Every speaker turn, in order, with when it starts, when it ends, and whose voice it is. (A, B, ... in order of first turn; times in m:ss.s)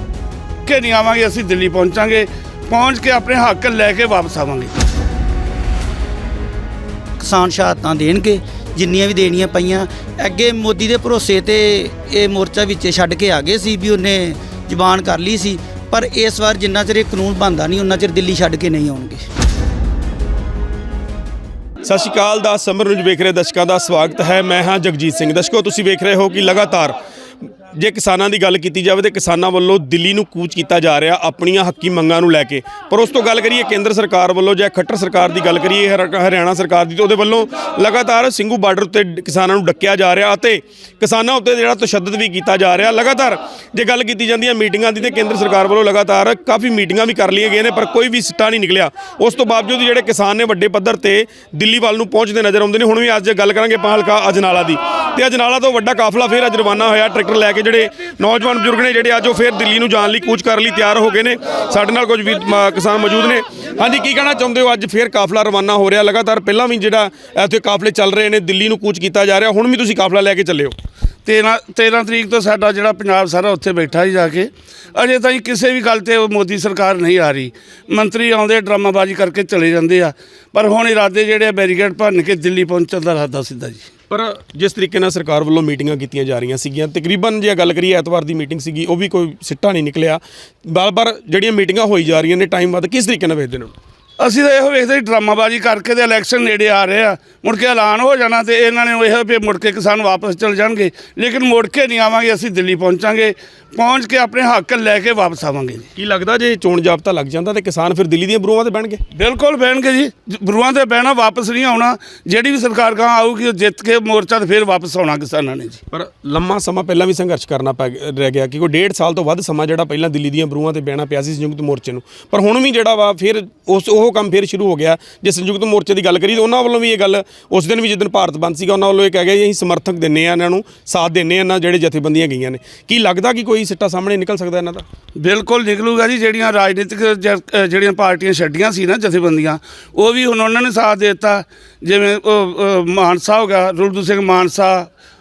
0:00.6-0:04.7 A
0:07.2-0:19.2 B
0:21.9-0:26.9 C
0:27.8-1:10.7 C
1:11.2-1:23.9 A
1:24.1-1:33.7 C
1:34.2-1:45.9 A
1:46.0-1:49.0 C
1:49.1-1:55.8 A
1:55.9-2:14.8 C
2:15.2-2:24.9 A